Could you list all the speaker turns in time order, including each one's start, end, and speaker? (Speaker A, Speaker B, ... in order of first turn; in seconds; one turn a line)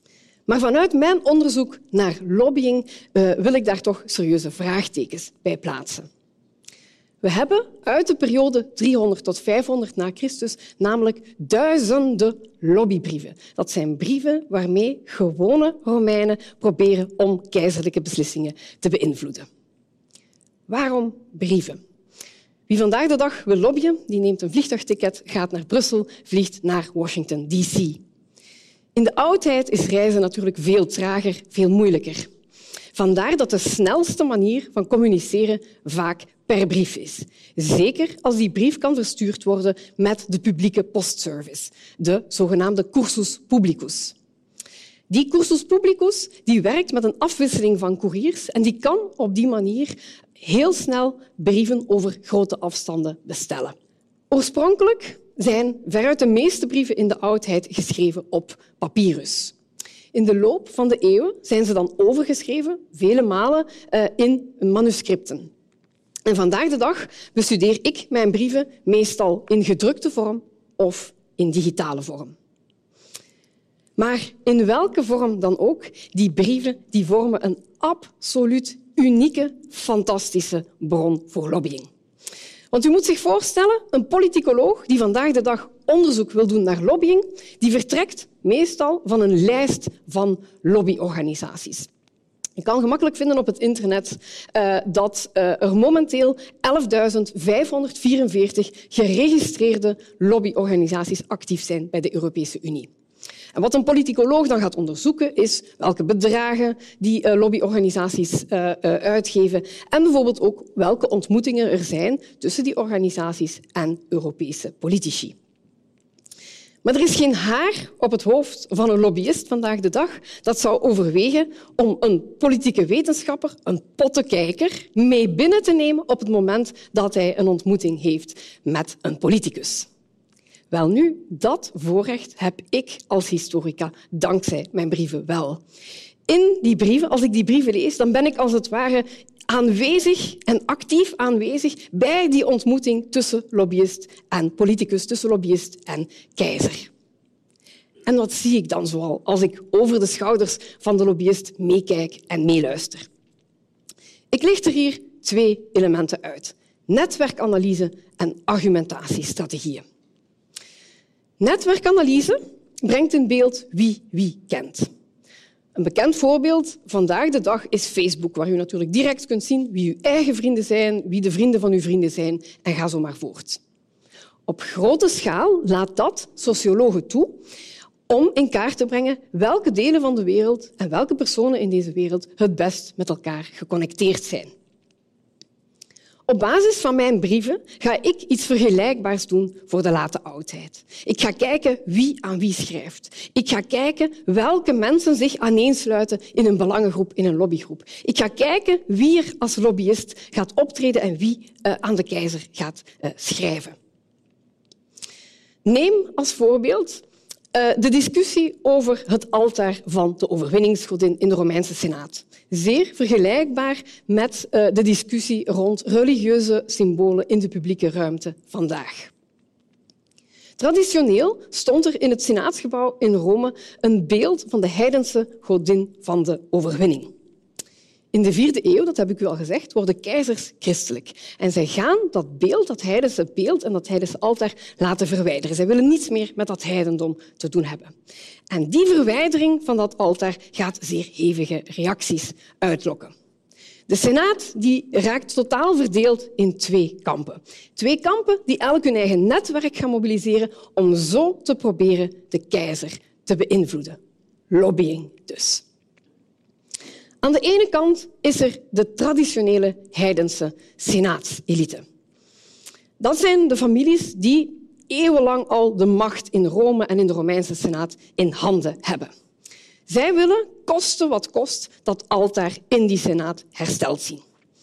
Speaker A: 0.5-6.1
Speaker A: 7.2-19.4
Speaker A: 20.7-21.8
Speaker A: 22.7-28.0
Speaker A: 28.9-32.3
Speaker A: 32.9-44.1
Speaker A: 45.1-53.7
Speaker A: 54.3-59.5
Speaker A: 60.1-65.5
Speaker A: 66.2-72.3
Speaker A: 74.0-81.9
Speaker A: 82.7-91.9
Speaker A: 92.6-102.9
Speaker A: 103.5-115.3
Speaker A: 116.8-129.9
Speaker A: 130.7-135.6
Speaker A: 136.3-146.9
Speaker A: 148.1-153.1
Speaker A: 154.3-159.8
Speaker A: 161.4-164.9
Speaker A: 165.7-173.6
Speaker A: 174.5-177.4
Speaker A: 178.1-184.5
Speaker A: 186.3-203.8
Speaker A: 205.6-219.1
Speaker A: 220.6-227.1
Speaker A: 228.1-237.9
Speaker A: 238.5-243.1
Speaker A: 243.9-254.0
Speaker A: 254.5-255.6
Speaker A: 257.2-261.8
Speaker A: 263.0-269.1
Speaker A: 269.9-274.2